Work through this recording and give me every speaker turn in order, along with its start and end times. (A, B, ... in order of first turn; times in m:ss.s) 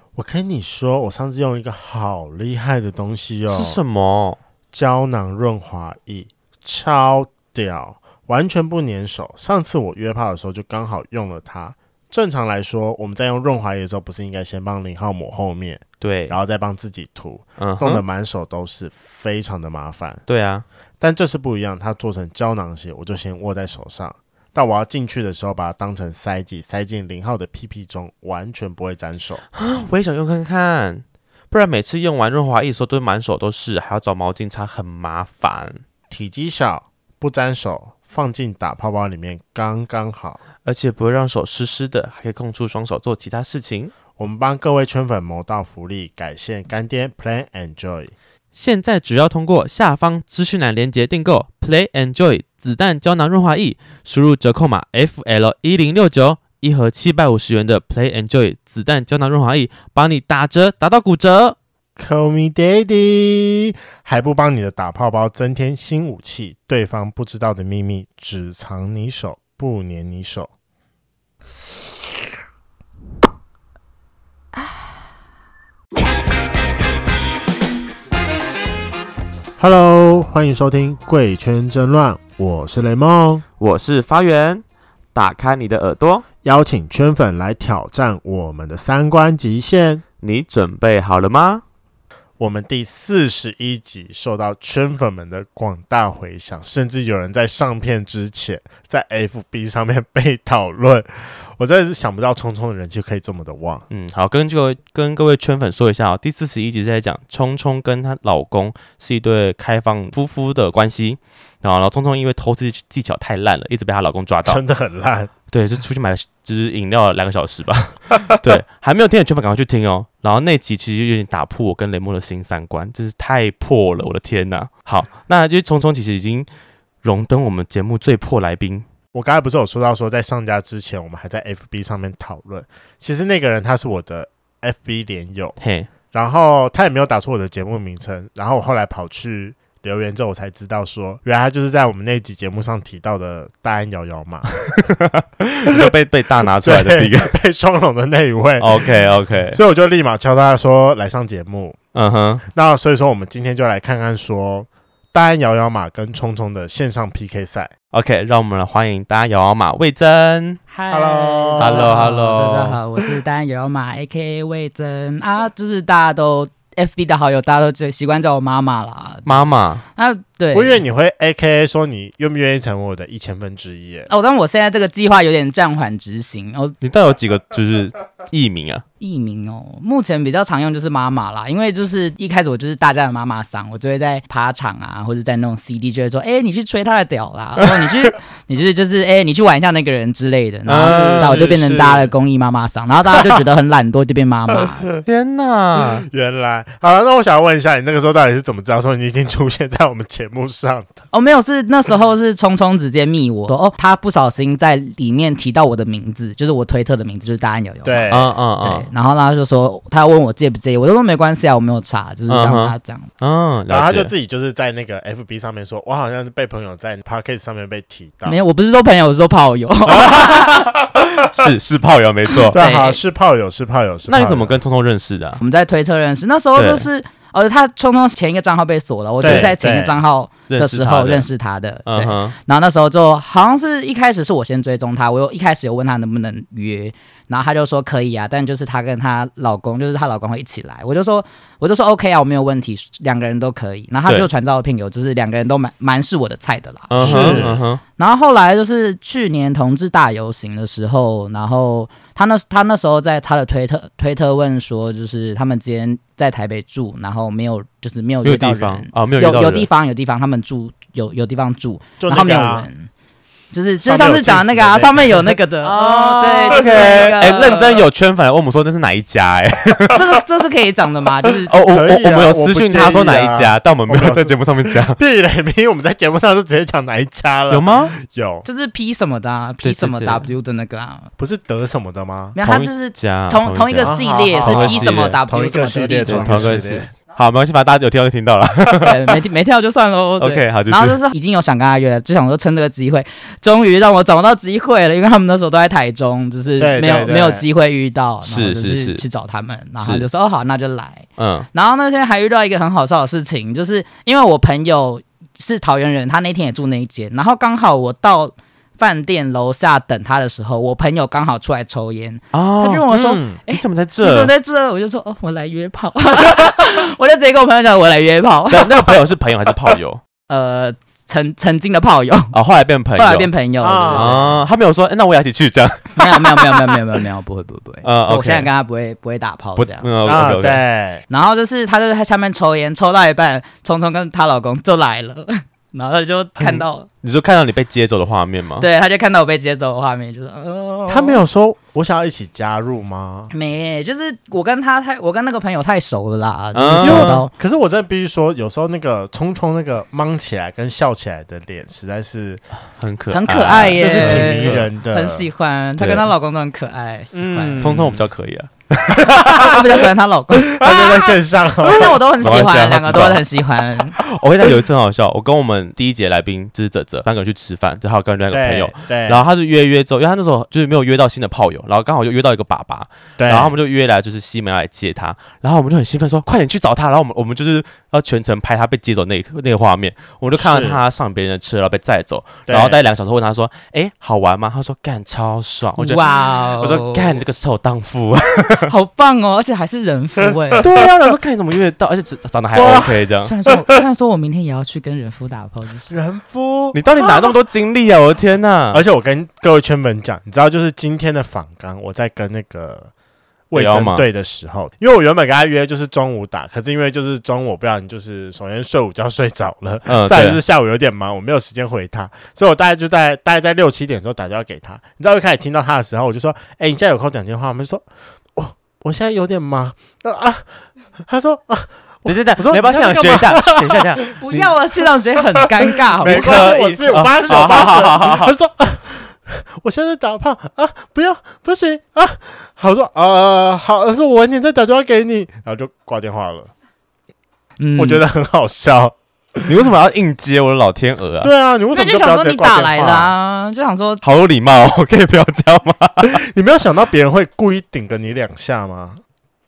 0:00.1-0:03.8 A
0:03.5-0:04.4 B
0:04.7-0:20.2 A
0:16.0-0:16.4 B
0:17.6-0:18.0 B
0:20.3-0:20.6 B
0:21.0-0:29.4 A
0:29.5-0:35.8 B
0:36.1-0:40.4 A
0:40.6-0:43.9 B
0:44.2-0:48.1 A
0:48.5-1:01.6 B
1:02.0-1:10.5 A
1:19.6-1:23.4 A
1:23.6-1:26.2 B
1:26.4-1:30.0 A
1:30.2-1:31.6 B
1:32.4-1:43.8 A
1:43.9-1:54.6 B
1:54.4-1:55.3 A
1:55.5-2:06.5 B
2:07.0-2:08.8 B
2:09.1-2:15.6 A
2:15.6-2:15.9 B
2:16.1-2:24.6 A
2:24.9-2:27.3 B
2:26.6-2:28.9 A
2:28.6-2:29.6 B
2:29.5-2:31.8 A
2:31.9-2:32.4 B
2:32.5-2:37.7 A
2:37.9-2:40.6 B
2:40.7-2:50.8 C
2:40.9-2:42.0 A
2:41.6-2:42.8 B
2:49.2-2:49.8 B
2:50.5-2:54.1 A
2:54.1-2:56.8 C
2:56.8-2:58.8 B
2:59.0-3:14.9 C
3:10.6-3:11.4 B
3:10.8-3:12.1 A
3:13.1-3:13.4 A
3:14.5-3:15.0 A
3:15.0-3:16.0 B
3:15.8-3:21.0 A
3:21.1-3:33.1 C
3:27.8-3:28.3 A
3:28.1-3:28.9 B
3:32.3-3:34.1 B
3:33.7-3:38.4 A
3:38.2-3:40.6 C
3:40.0-3:40.2 A
3:40.0-3:42.6 B
3:42.5-3:44.6 A
3:42.5-3:43.0 C
3:44.1-3:45.4 B
3:45.4-4:22.9 C
3:46.6-3:46.9 B
3:49.2-3:50.0 A
3:49.2-3:49.5 B
3:50.5-3:51.3 B
3:51.9-3:52.3 B
4:06.9-4:07.8 B
4:07.0-4:07.6 A
4:18.2-4:19.7 B
4:22.0-4:22.7 A
4:23.5-4:27.8 C
4:23.8-4:25.4 A
4:25.6-4:30.0 B
4:26.5-4:26.9 A
4:29.9-4:31.5 C
4:31.3-4:35.0 B
4:31.6-4:38.4 A
4:37.5-4:37.9 B
4:38.4-4:41.1 C
4:39.6-4:40.3 B
4:41.2-4:42.4 A
4:42.4-4:46.5 C
4:42.4-4:45.2 B
4:43.8-4:46.9 A
4:46.0-4:49.1 B
4:48.8-5:18.9 C
4:50.2-4:51.0 B
4:56.6-4:57.4 A
4:58.2-4:59.0 B
4:59.8-5:00.0 B
5:01.2-5:01.5 B
5:12.3-5:14.3 B
5:18.5-5:20.0 B
5:20.3-5:22.3 C
5:22.3-5:23.3 B
5:23.0-5:24.3 C
5:23.6-5:24.4 A
5:23.9-5:26.8 B
5:26.0-5:29.9 C
5:27.8-5:28.5 B
5:29.6-5:30.6 B
5:30.0-5:31.0 A
5:31.1-5:36.9 C
5:36.4-5:38.6 B
5:38.6-5:41.2 C
5:40.9-5:43.3 A
5:43.3-5:47.3 C
5:46.5-5:47.2 B
5:46.8-5:52.4 A
5:52.8-5:54.7 B
5:53.1-5:57.6 C
5:53.7-5:55.3 A
5:55.8-5:56.0 B
5:57.1-5:58.0 A
5:57.6-5:59.6 B
5:59.0-5:59.7 A
5:59.2-6:01.1 C
6:00.4-6:03.1 A
6:00.6-6:01.0 B
6:01.6-6:04.0 C
6:02.2-6:03.2 B
6:04.0-6:28.7 B
6:08.3-6:09.2 A
6:13.2-6:13.5 A
6:20.4-6:20.8 A
6:22.5-6:22.8 A
6:25.8-6:27.2 C
6:28.7-6:30.7 C
6:30.6-6:33.3 B
6:32.6-6:32.9 A
6:32.7-6:36.0 C
6:35.9-6:37.3 A
6:36.7-6:38.8 B
6:38.7-6:42.9 A
6:43.5-7:00.5 A
6:43.5-6:44.0 B
6:49.8-6:50.4 B
7:01.0-7:16.5 A
7:02.0-7:04.0 B
7:04.1-7:07.9 C
7:06.0-7:08.3 B
7:17.6-7:18.0 C
7:17.8-7:19.5 A
7:19.4-7:21.3 B
7:21.2-7:23.1 A
7:21.7-7:24.0 C
7:24.0-7:26.2 B
7:26.0-7:29.0 A